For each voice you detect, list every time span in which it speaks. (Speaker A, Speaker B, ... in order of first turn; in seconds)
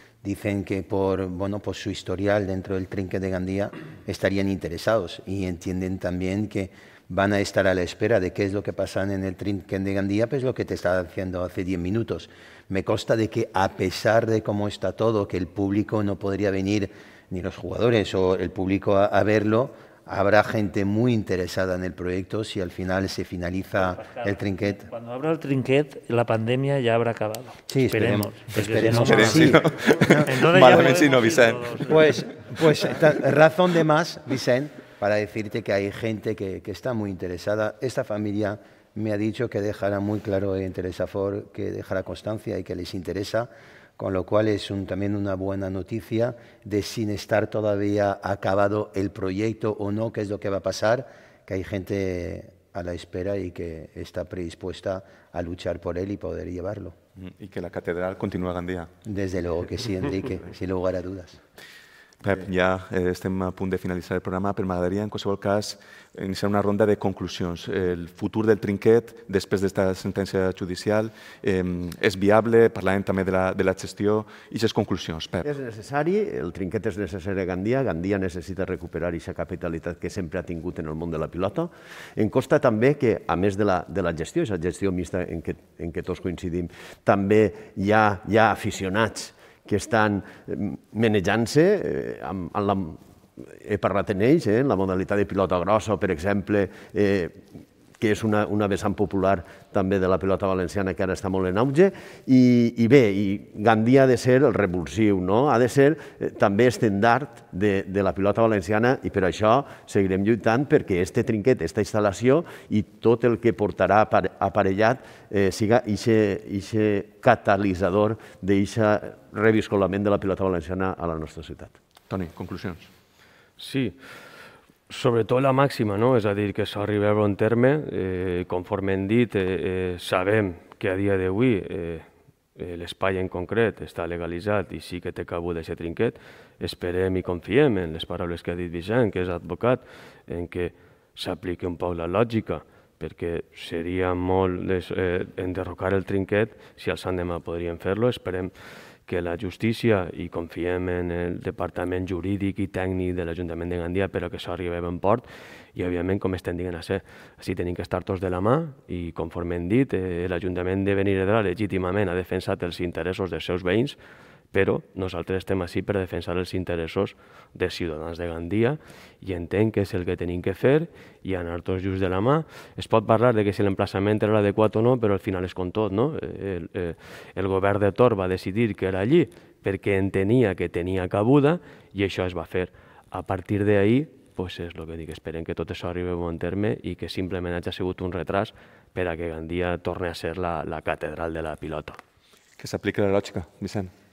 Speaker A: 0.2-24.9, 27.7-30.3, 31.9-57.0, 59.1-61.4
Speaker B: 23.8-32.2
Speaker C: 28.8-32.2, 57.2-58.9, 62.2-75.5, 122.1-122.9, 192.6-193.9
Speaker D: 75.4-97.4, 98.0-121.8
Speaker E: 123.6-124.1, 124.9-148.5, 149.1-164.0, 164.5-192.0